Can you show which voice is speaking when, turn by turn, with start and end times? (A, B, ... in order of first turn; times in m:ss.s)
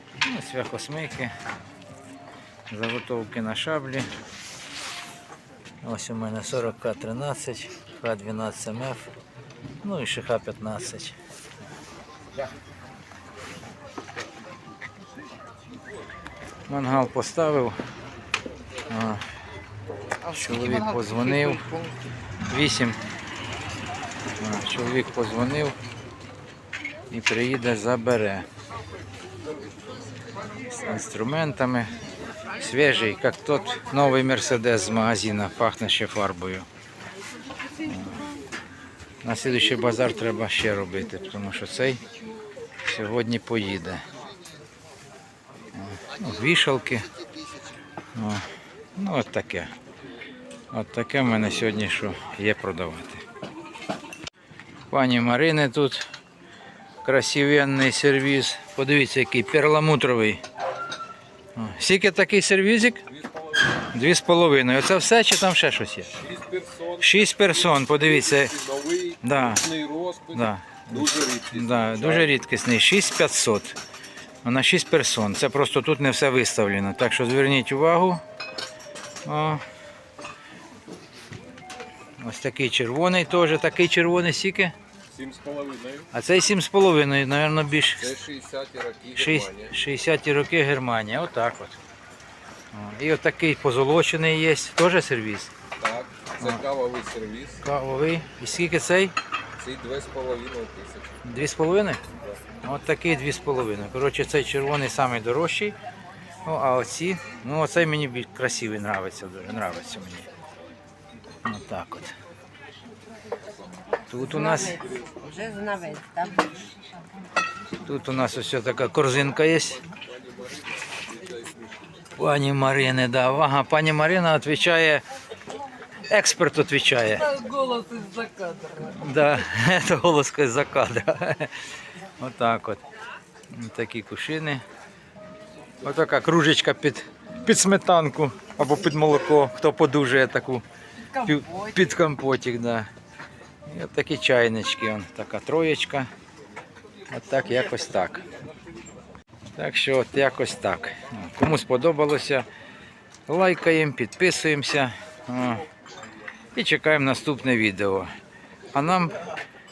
0:00.2-0:01.3 A
0:02.7-0:04.1 A
0:05.8-0:09.1 A
0:09.8-0:11.2 A
0:16.7-0:17.8 A
0:18.9-0:19.2 A
0:20.2-0:21.9 A
0:22.5-0:23.0 A
0:24.4-0:25.8 A
0:27.1-0:28.5 A
0:30.7-0:32.0 A
0:32.6-0:36.7 A
0:37.8-0:38.3 A
0:39.2-0:42.0 A
0:42.8-0:44.0 A
0:45.7-0:47.1 A
0:48.1-0:49.7 A
0:50.7-0:53.2 A
0:54.9-0:56.1 A
0:57.0-1:00.4 A
1:01.6-1:03.0 A
1:03.8-1:06.2 A
1:06.2-1:07.1 B
1:07.0-1:08.7 A
1:08.4-1:10.4 B
1:09.2-1:09.8 A
1:10.3-1:13.8 A
1:10.9-1:12.2 B
1:14.4-1:18.2 A
1:19.2-1:19.6 A
1:22.2-1:24.8 A
1:25.1-1:26.1 B
1:26.1-1:28.2 A
1:28.0-1:29.7 B
1:29.1-1:31.8 A
1:32.7-1:35.5 A
1:35.8-1:37.6 B
1:37.6-1:39.2 A
1:39.6-1:41.1 B
1:41.2-1:42.0 A
1:42.6-1:45.8 A
1:46.4-1:50.3 A
1:51.4-1:52.2 A
1:54.1-1:54.9 A
1:55.2-1:57.2 C
1:57.8-1:59.8 A
2:00.2-2:01.9 B
2:02.2-2:05.0 A
2:06.1-2:07.5 A
2:07.4-2:08.8 C
2:08.8-2:11.7 A
2:12.2-2:12.8 A
2:13.5-2:14.6 A
2:15.8-2:22.9 A
2:23.7-2:26.1 A
2:27.1-2:28.3 A
2:29.6-2:32.5 A
2:33.3-2:35.7 A
2:36.6-2:38.1 A
2:38.7-2:39.2 A